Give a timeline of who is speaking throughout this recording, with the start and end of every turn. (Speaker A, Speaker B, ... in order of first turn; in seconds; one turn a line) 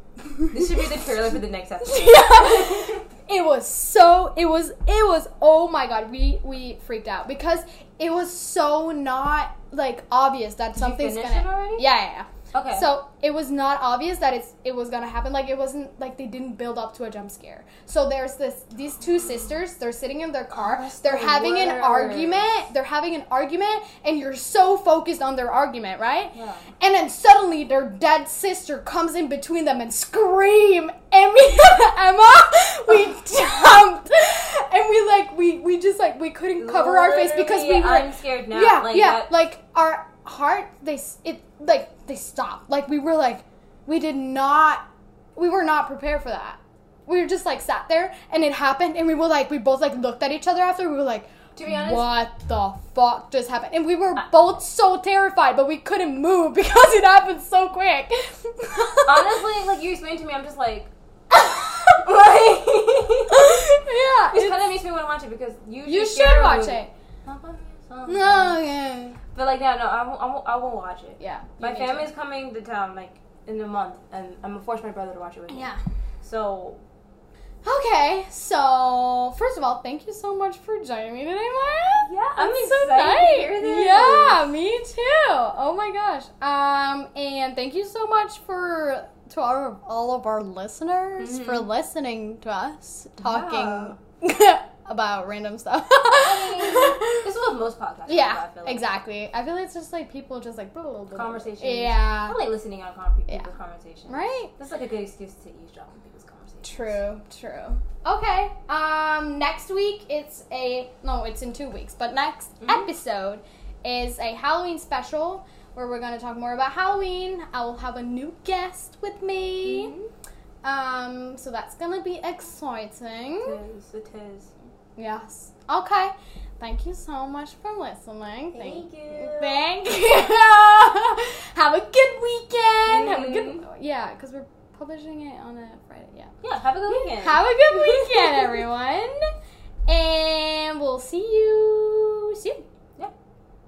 Speaker A: 0.5-3.0
Speaker B: 1.8-59.4
Speaker A: 10.8-11.9
Speaker A: 12.5-12.9
Speaker A: 20.5-22.6
Speaker A: 26.3-26.7
Speaker A: 36.6-39.4
Speaker A: 51.6-52.2
Speaker A: 59.0-60.9
Speaker B: 61.5-61.8
Speaker A: 62.0-63.6
Speaker B: 63.3-64.7
Speaker A: 64.3-68.6
Speaker B: 65.8-66.9
Speaker B: 68.1-69.2
Speaker A: 69.3-76.8
Speaker B: 71.2-72.1
Speaker B: 75.5-75.8
Speaker B: 77.6-97.3
Speaker A: 82.0-84.5
Speaker A: 91.2-91.7
Speaker A: 93.2-94.0
Speaker A: 96.1-98.9
Speaker B: 98.1-102.5
Speaker A: 101.1-107.0
Speaker B: 104.1-104.5
Speaker B: 106.6-119.9
Speaker A: 119.6-120.1
Speaker B: 120.6-123.6
Speaker A: 123.4-124.5
Speaker B: 125.0-136.3
Speaker A: 128.5-129.8
Speaker A: 132.9-133.7
Speaker A: 136.4-138.6
Speaker B: 136.9-139.3
Speaker B: 139.9-142.7